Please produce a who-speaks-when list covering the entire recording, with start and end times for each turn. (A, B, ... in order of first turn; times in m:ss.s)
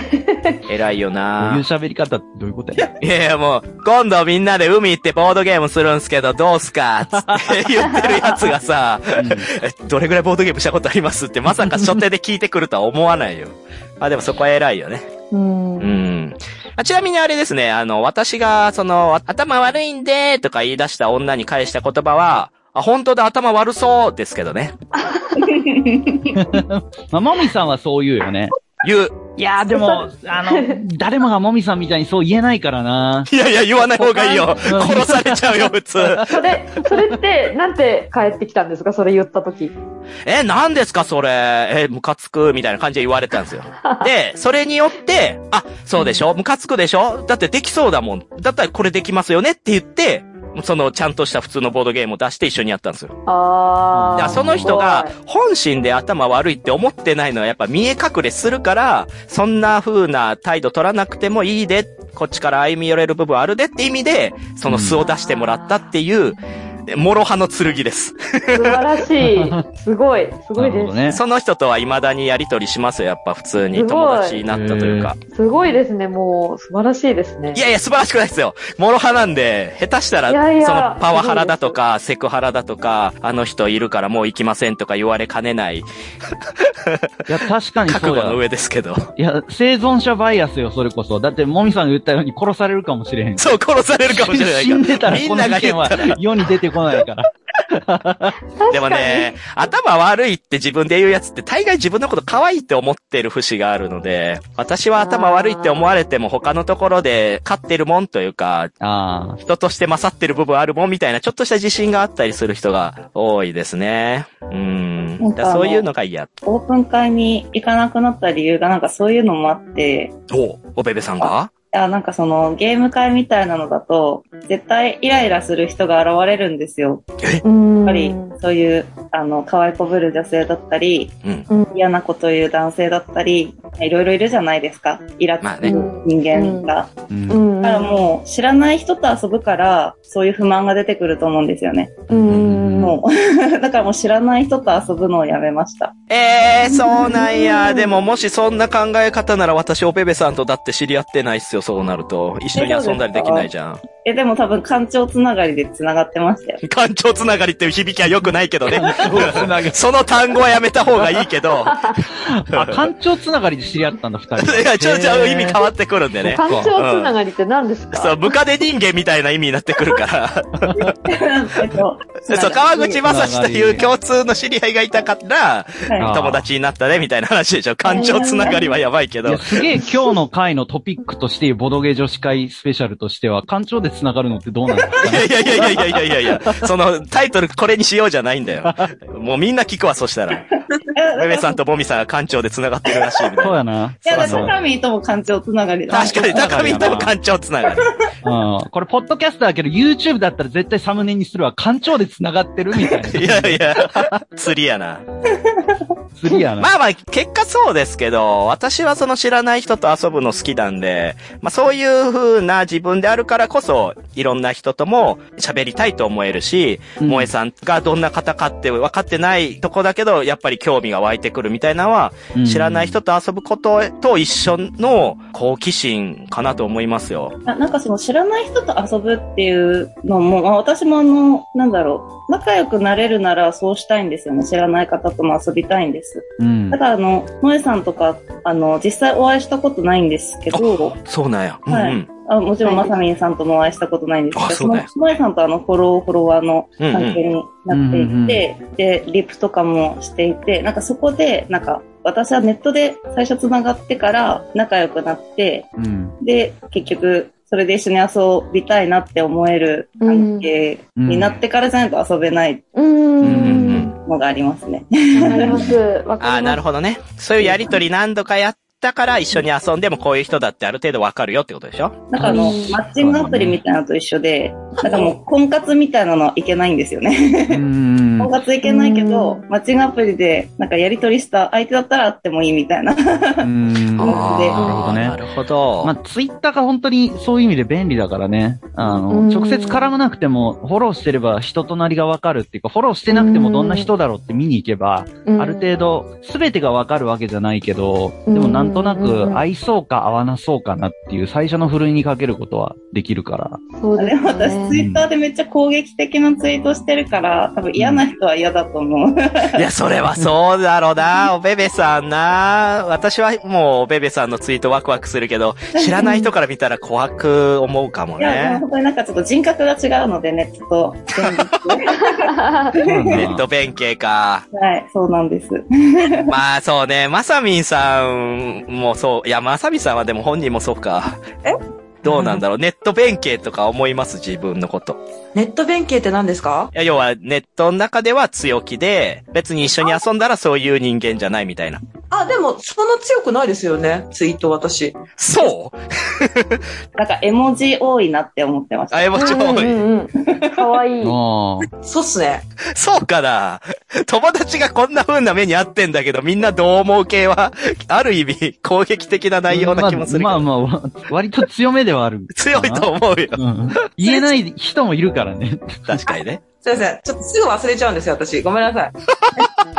0:00.1-0:00.6 A
0:00.7-0:01.6 B
0:01.4-0:02.9 C
0:03.0-0:15.1 B
0:09.2-0:09.5 C
0:11.6-0:11.9 C
0:15.3-0:15.9 A
0:15.8-0:24.7 B
0:24.9-0:25.7 A
0:25.4-0:26.3 D
0:26.3-0:28.5 C
0:28.8-0:29.2 B
0:29.4-0:33.3 C
0:29.7-0:30.8 A
0:33.3-0:36.4 B
0:34.2-0:36.3 C
0:36.3-0:39.7 A
0:40.2-0:53.1 B
0:53.3-0:55.1 A
0:53.9-0:54.8 C
0:54.2-1:08.8 B
1:04.7-1:05.0 C
1:05.0-1:05.8 A
1:08.5-1:11.1 A
1:09.2-1:09.6 C
1:10.6-1:11.2 C
1:11.1-1:15.2 B
1:13.7-1:14.4 A
1:14.4-1:15.1 C
1:15.3-1:17.6 A
1:17.5-1:25.9 B
1:20.3-1:21.8 A
1:26.6-1:27.3 B
1:27.3-1:28.4 C
1:27.9-1:29.1 B
1:29.2-1:38.4 C
1:33.4-1:36.2 B
1:38.6-1:39.4 A
1:38.7-1:48.7 B
1:45.0-1:45.9 A
1:48.8-1:49.4 C
1:49.4-1:56.3 B
1:55.2-1:55.9 D
1:56.4-2:00.1 D
2:00.3-2:01.5 B
2:01.2-2:07.0 D
2:07.4-2:08.3 A
2:07.8-2:11.1 D
2:11.5-2:11.8 A
2:11.7-2:16.9 D
2:15.4-2:15.7 B
2:15.6-2:16.7 A
2:17.1-2:17.4 C
2:17.3-2:17.9 A
2:17.6-2:22.0 D
2:22.1-2:23.0 C
2:22.1-2:23.0 A
2:22.8-2:25.9 D
2:26.1-2:33.8 B
2:26.8-2:28.0 A
2:32.5-2:33.5 D
2:34.0-2:36.6 D
2:36.6-2:41.9 B
2:38.7-2:39.8 C
2:41.6-2:42.0 A
2:42.0-2:45.6 C
2:42.5-2:42.9 B
2:44.4-2:47.1 B
2:46.2-2:46.7 C
2:46.3-2:48.3 A
2:47.9-2:51.0 B
2:51.0-2:53.0 D
2:52.3-2:59.7 B
2:53.0-2:53.9 C
2:55.9-2:56.1 D
2:56.0-2:56.5 C
2:57.9-2:58.7 A
2:57.9-2:58.6 D
2:59.2-3:06.7 C
3:05.0-3:10.5 B
3:08.6-3:08.9 C
3:10.9-3:11.6 D
3:11.1-3:14.5 B
3:13.4-3:14.5 C
3:14.0-3:17.0 D
3:15.9-3:18.0 B
3:16.1-3:17.2 C
3:18.2-3:24.2 C
3:23.0-3:25.0 B
3:25.4-3:25.8 D
3:26.2-3:26.7 C
3:26.6-3:47.4 B
3:37.0-3:37.3 C
3:42.3-3:43.0 C
3:47.4-4:01.0 D
3:56.4-3:56.8 C
4:00.5-4:02.1 B
4:01.7-4:15.7 D
4:02.6-4:02.9 A
4:04.3-4:04.9 B
4:06.8-4:07.2 B
4:07.7-4:08.5 C
4:15.8-4:16.1 C
4:16.2-4:22.7 D
4:20.0-4:20.5 A
4:21.0-4:21.4 C
4:22.8-4:23.9 A
4:23.2-4:23.8 C
4:23.2-4:23.9 B
4:23.9-4:25.8 D
4:25.2-4:25.8 C
4:25.2-4:26.6 A
4:26.2-4:32.1 B
4:32.1-4:37.6 D
4:32.2-4:33.6 C
4:32.2-4:32.8 A
4:37.5-4:38.3 C
4:38.2-4:44.7 D
4:38.6-4:39.4 A
4:43.4-4:45.2 C
4:44.0-4:45.9 B
4:45.8-5:03.6 C
4:49.1-4:49.9 A
4:53.1-4:53.9 A
4:55.2-4:55.7 A
4:58.3-4:59.4 A
5:03.7-5:04.7 A
5:03.9-5:09.6 D
5:04.7-5:05.0 C
5:07.8-5:08.0 C
5:09.6-5:18.6 B
5:15.7-5:16.3 D
5:18.2-5:23.3 D
5:21.2-5:21.6 B
5:22.0-5:22.8 A
5:22.8-5:23.4 C
5:23.1-5:24.4 B
5:24.5-5:26.3 D
5:26.3-5:31.2 B
5:32.0-5:35.0 B
5:35.3-5:36.7 E
5:36.7-5:41.8 B
5:42.1-5:45.0 E
5:45.2-5:46.6 B
5:47.0-5:49.7 D
5:48.9-5:49.8 B
5:49.1-5:51.2 A
5:50.3-5:50.7 D
5:51.0-5:51.7 C
5:51.7-5:52.4 E
5:52.7-6:00.5 B
5:59.5-6:06.0 C
6:02.3-6:03.8 B
6:05.9-6:06.4 B
6:06.6-6:08.9 E